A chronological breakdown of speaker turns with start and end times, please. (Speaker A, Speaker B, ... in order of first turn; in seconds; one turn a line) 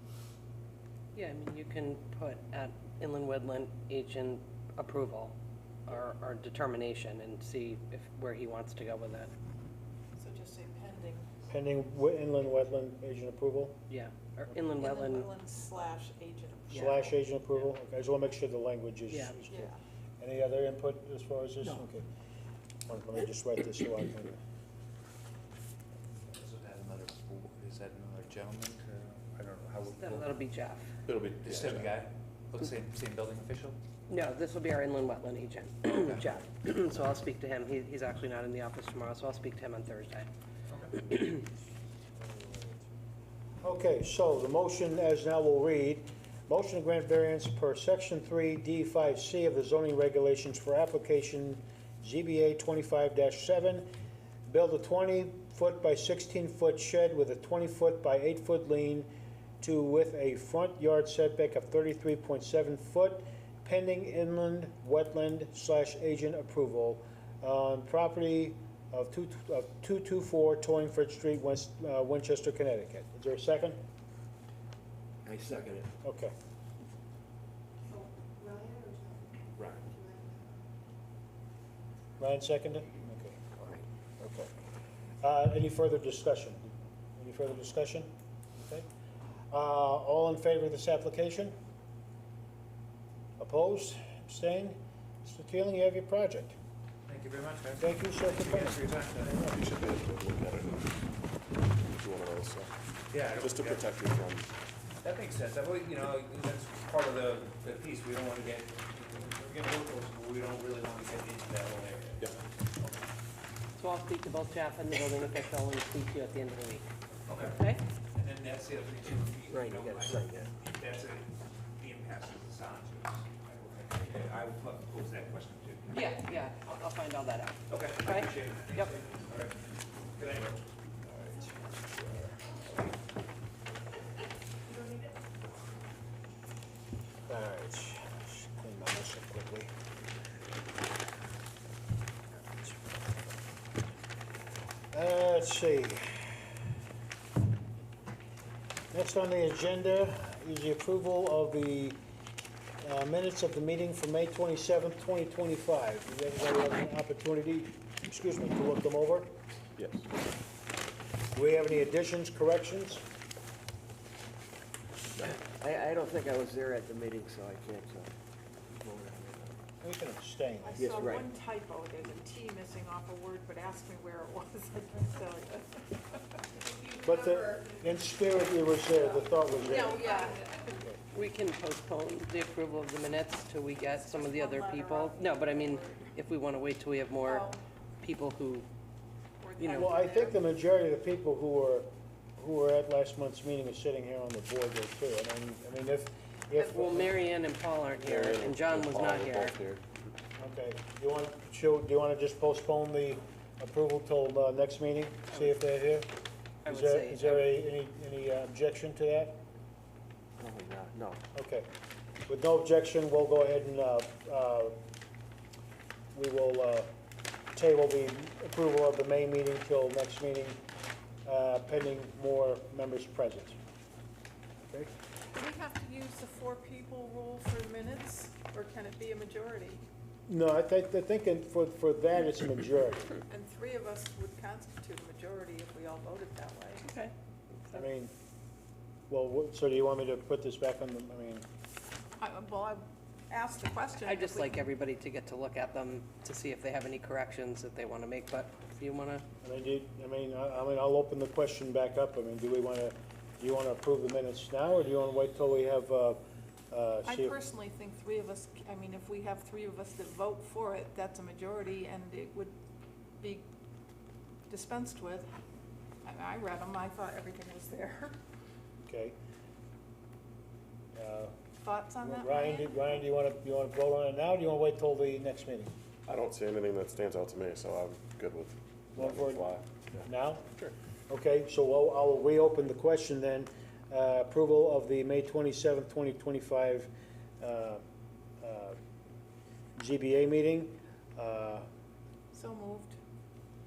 Speaker A: 1.1-5.3
Speaker A: 5.8-9.3
Speaker B: 10.2-11.3
Speaker C: 11.5-13.8
Speaker A: 13.9-15.3
Speaker B: 14.8-16.7
Speaker A: 16.7-17.2
Speaker C: 16.7-19.7
Speaker A: 19.1-19.3
Speaker B: 19.5-19.8
Speaker C: 20.2-22.0
Speaker C: 22.9-24.4
Speaker D: 26.3-30.3
Speaker A: 29.9-30.9
Speaker B: 31.1-31.8
Speaker D: 31.2-33.8
Speaker A: 34.1-40.3
Speaker D: 35.8-36.2
Speaker D: 40.7-41.1
Speaker C: 43.6-53.9
Speaker C: 54.5-59.1
Speaker C: 59.6-73.8
Speaker E: 75.2-75.9
Speaker C: 76.0-76.3
Speaker C: 82.2-84.5
Speaker C: 85.2-88.1
Speaker C: 88.6-88.9
Speaker C: 89.5-91.5
Speaker C: 93.4-96.6
Speaker D: 97.1-99.7
Speaker C: 97.8-99.5
Speaker F: 99.5-100.2
Speaker B: 100.1-100.9
Speaker B: 102.0-102.7
Speaker D: 103.1-104.0
Speaker B: 103.5-104.5
Speaker D: 105.0-113.1
Speaker A: 113.8-116.9
Speaker D: 117.2-126.5
Speaker A: 117.5-117.8
Speaker E: 119.5-120.5
Speaker A: 125.9-128.9
Speaker D: 127.7-130.6
Speaker C: 137.3-139.7
Speaker C: 144.9-146.3
Speaker C: 148.9-152.0
Speaker C: 152.8-159.3
Speaker F: 159.8-160.1
Speaker C: 161.3-163.0
Speaker E: 165.2-168.1
Speaker E: 168.7-169.6
Speaker C: 169.8-171.1
Speaker B: 170.6-176.1
Speaker E: 170.8-171.3
Speaker C: 177.0-180.2
Speaker B: 179.8-180.7
Speaker A: 181.1-187.5
Speaker B: 183.9-186.1
Speaker B: 187.2-187.6
Speaker A: 188.0-188.7
Speaker B: 189.4-190.3
Speaker A: 189.6-190.0
Speaker C: 189.7-197.2
Speaker A: 196.5-199.6
Speaker F: 198.0-199.8
Speaker C: 200.4-206.1
Speaker A: 206.6-207.4
Speaker C: 206.7-209.4
Speaker E: 210.4-211.2
Speaker C: 211.3-211.7
Speaker C: 212.3-214.8
Speaker C: 216.1-216.9
Speaker C: 217.5-220.6
Speaker C: 221.2-223.6
Speaker C: 224.7-224.9
Speaker B: 225.3-229.8
Speaker C: 230.3-233.2
Speaker B: 233.3-236.8
Speaker A: 236.8-237.1
Speaker C: 237.7-238.1
Speaker C: 239.1-241.4
Speaker B: 242.2-244.5
Speaker A: 243.9-249.2
Speaker C: 249.4-256.2
Speaker C: 256.7-257.4
Speaker B: 257.0-262.6
Speaker B: 263.2-263.5
Speaker B: 264.5-265.3
Speaker B: 266.0-268.2
Speaker C: 268.9-269.1
Speaker C: 270.9-271.3
Speaker B: 271.6-272.7
Speaker C: 272.0-275.7
Speaker F: 276.1-279.6
Speaker C: 278.9-280.5
Speaker C: 281.1-286.9
Speaker C: 287.4-287.8
Speaker C: 288.4-288.8
Speaker C: 289.8-291.6
Speaker B: 292.3-293.0